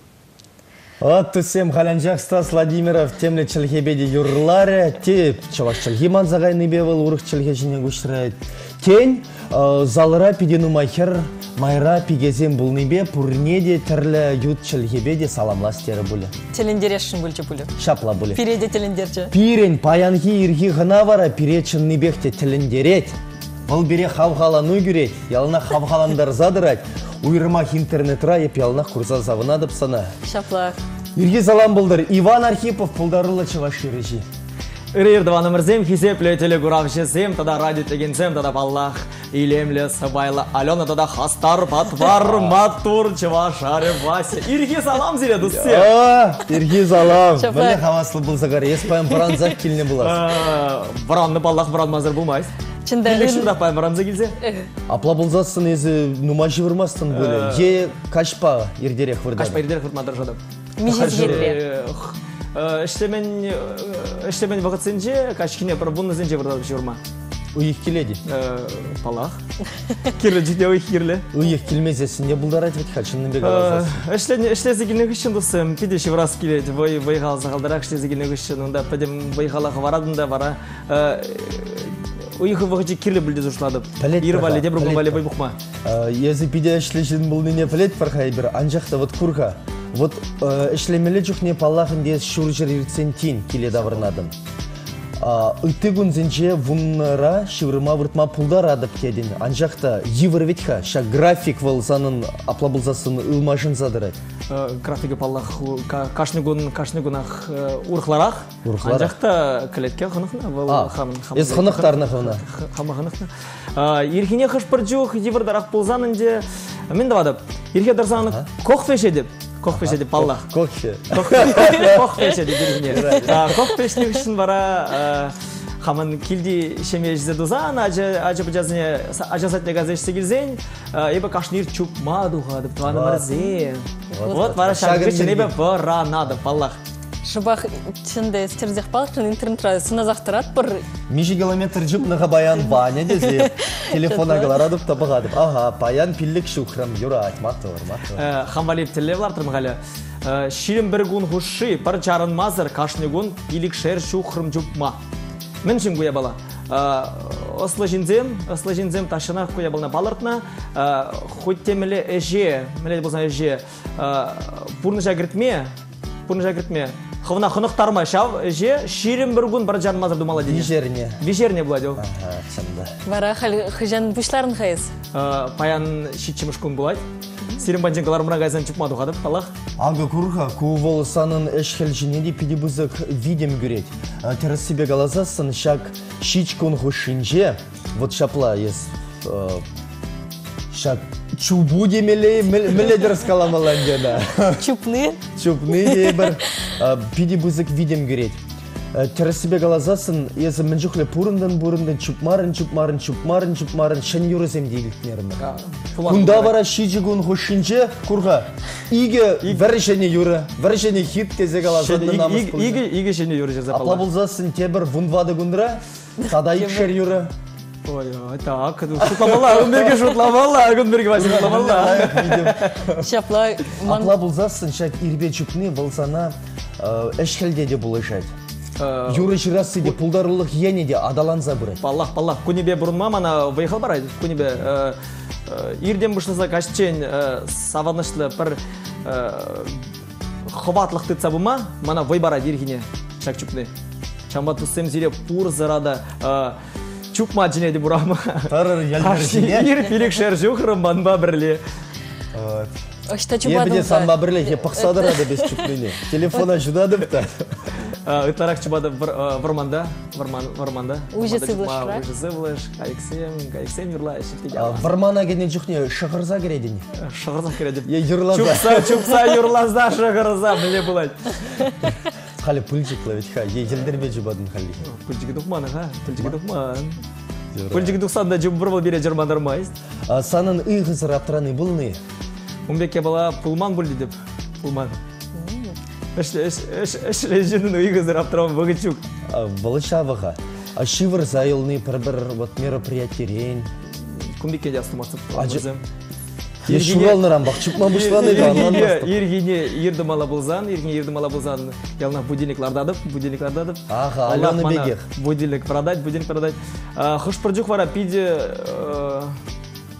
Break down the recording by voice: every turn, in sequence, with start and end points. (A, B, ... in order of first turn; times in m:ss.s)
0:01.0-0:16.3 A
0:16.5-0:17.7 B
0:17.8-0:18.4 A
0:18.3-0:19.3 B
0:19.3-0:30.1 A
0:30.2-0:30.8 B
0:31.2-0:34.2 A
0:34.9-0:45.9 C
0:42.2-0:42.6 A
0:45.4-0:50.2 A
0:47.3-0:47.8 B
0:49.0-0:49.5 B
0:50.0-0:52.5 C
0:52.8-0:53.5 B
0:53.0-0:54.4 C
0:54.4-0:54.7 B
0:54.9-0:59.6 A
0:57.1-0:57.8 C
0:59.3-1:07.0 C
1:00.8-1:01.6 B
1:01.0-1:01.5 A
1:07.5-1:08.2 A
1:08.2-1:09.4 C
1:10.1-1:11.3 C
1:11.3-1:14.0 A
1:13.4-1:25.6 C
1:24.0-1:25.2 A
1:25.8-1:34.3 A
1:33.7-1:34.1 C
1:35.2-1:44.2 A
1:44.5-2:00.5 C
1:48.6-1:49.1 A
1:50.7-1:52.4 A
1:58.2-1:58.5 A
1:59.7-2:03.6 A
2:01.1-2:16.8 C
2:12.8-2:13.3 A
2:14.1-2:14.8 B
2:14.1-2:15.6 A
2:17.2-2:20.8 B
2:21.1-2:28.2 A
2:22.7-2:24.6 B
2:28.1-2:35.0 C
2:35.6-2:45.7 C
2:46.3-2:52.0 C
2:50.4-2:51.2 A
2:52.0-2:52.9 A
2:53.0-2:54.9 B
2:55.1-2:57.0 C
2:57.6-2:59.5 C
2:59.8-3:09.6 A
3:10.7-3:14.6 A
3:14.5-3:15.2 B
3:15.4-3:18.4 A
3:15.7-3:16.3 B
3:18.9-3:25.4 A
3:25.4-3:26.6 C
3:26.0-3:32.8 A
3:29.4-3:29.7 C
3:31.6-3:34.1 C
3:33.7-3:37.3 A
3:36.2-3:37.0 B
3:37.8-3:42.8 C
3:39.0-3:39.8 A
3:41.1-3:43.1 A
3:42.9-3:44.2 B
3:43.8-3:48.3 A
3:48.8-3:50.0 C
3:49.1-3:51.8 A
3:51.8-3:59.9 C
4:00.5-4:03.7 C
4:04.3-4:06.6 C
4:07.1-4:11.6 C
4:08.5-4:09.8 A
4:12.3-4:12.7 A
4:13.1-4:15.7 B
4:13.4-4:17.7 A
4:17.9-4:24.9 C
4:21.1-4:22.0 B
4:24.5-4:26.8 A
4:27.0-4:31.7 C
4:27.8-4:29.1 A
4:32.4-4:34.9 A
4:34.8-4:37.0 C
4:37.5-4:38.0 A
4:37.7-4:39.7 C
4:40.0-4:42.0 A
4:42.7-4:45.0 C
4:45.3-4:45.8 B
4:46.1-4:49.0 C
4:49.3-4:53.7 A
4:54.0-4:55.8 C
4:55.3-4:55.7 A
4:56.6-5:09.4 C
4:56.6-4:59.2 A
5:03.9-5:05.1 A